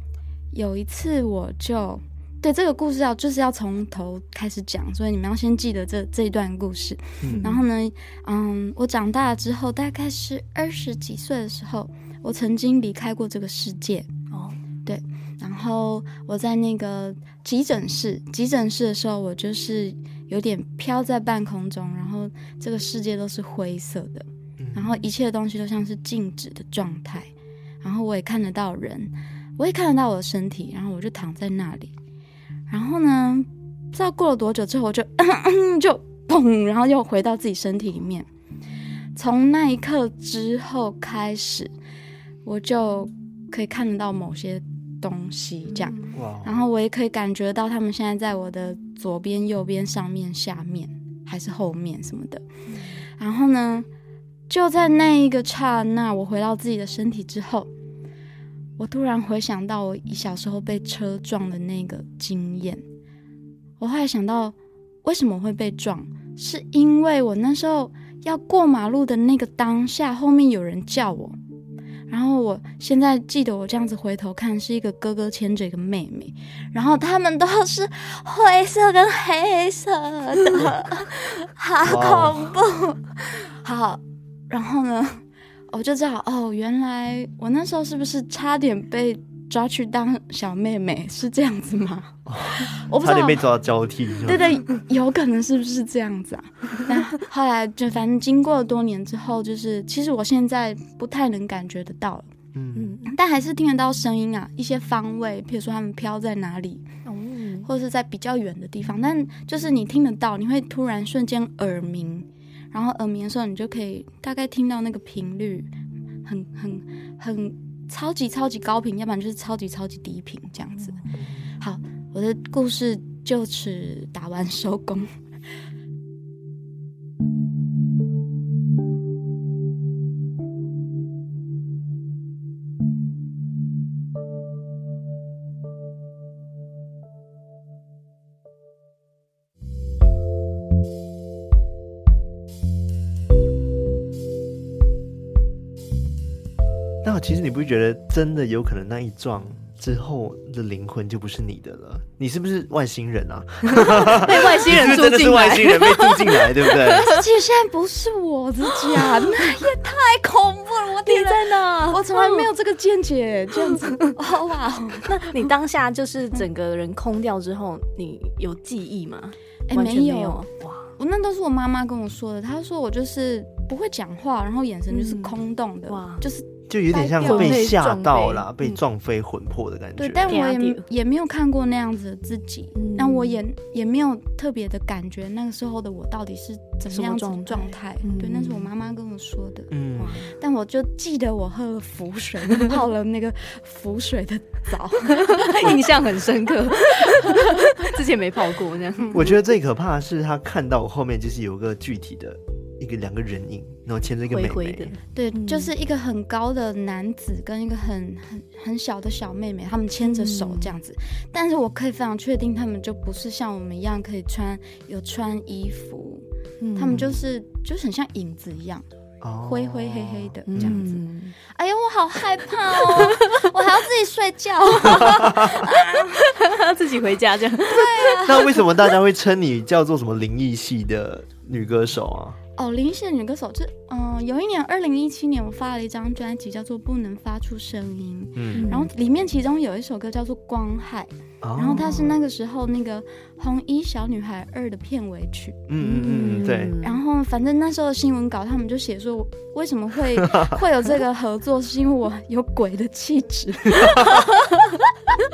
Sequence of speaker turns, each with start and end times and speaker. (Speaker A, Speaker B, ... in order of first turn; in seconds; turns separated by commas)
Speaker A: 0.5-14.1, Speaker B: 7.2-7.5, Speaker C: 7.3-7.6, Speaker C: 14.3-14.6, Speaker A: 14.8-27.3, Speaker B: 24.6-25.0, Speaker A: 27.8-31.9, Speaker A: 32.7-38.3, Speaker A: 39.2-41.7, Speaker A: 42.5-52.4, Speaker C: 45.7-46.1, Speaker B: 46.1-46.6, Speaker A: 53.2-53.9, Speaker A: 54.5-57.7, Speaker A: 58.8-62.8, Speaker A: 63.8-71.4, Speaker A: 72.1-93.4, Speaker B: 81.8-82.5, Speaker B: 92.3-94.6, Speaker A: 94.2-102.3, Speaker B: 102.5-103.0, Speaker C: 102.8-103.1, Speaker A: 103.0-106.9, Speaker C: 107.0-107.7, Speaker A: 107.7-115.7, Speaker A: 116.2-121.0, Speaker B: 121.2-121.5, Speaker A: 121.6-125.1, Speaker B: 147.0-157.1, Speaker C: 153.7-157.2, Speaker A: 157.0-165.4, Speaker C: 161.1-162.5, Speaker C: 163.7-164.1, Speaker C: 165.1-170.9, Speaker A: 169.7-170.4, Speaker A: 171.0-177.7, Speaker C: 174.9-175.3, Speaker C: 175.9-176.2, Speaker B: 176.7-180.4, Speaker C: 177.2-178.8, Speaker A: 180.0-189.7, Speaker C: 180.3-180.9, Speaker C: 182.8-183.4, Speaker C: 186.9-188.7, Speaker B: 189.7-190.2, Speaker C: 190.0-190.3, Speaker A: 190.3-195.8, Speaker C: 195.2-199.3, Speaker A: 197.0-197.9, Speaker A: 199.0-199.3, Speaker B: 199.1-204.9, Speaker C: 204.3-205.7, Speaker A: 205.2-216.2, Speaker C: 210.0-210.7, Speaker C: 216.6-217.0, Speaker A: 216.8-218.8, Speaker B: 216.9-217.2, Speaker B: 219.2-220.9, Speaker A: 219.4-220.9, Speaker C: 220.5-221.3, Speaker A: 221.5-226.4, Speaker B: 224.9-225.7, Speaker C: 226.2-228.2, Speaker A: 227.7-228.6, Speaker B: 228.2-232.4, Speaker A: 232.6-245.7, Speaker B: 238.4-238.7, Speaker C: 238.6-238.9, Speaker B: 241.4-242.1, Speaker C: 241.7-242.1, Speaker B: 245.7-246.8, Speaker C: 245.8-247.0, Speaker A: 246.8-254.3, Speaker B: 250.2-250.6, Speaker B: 253.8-254.2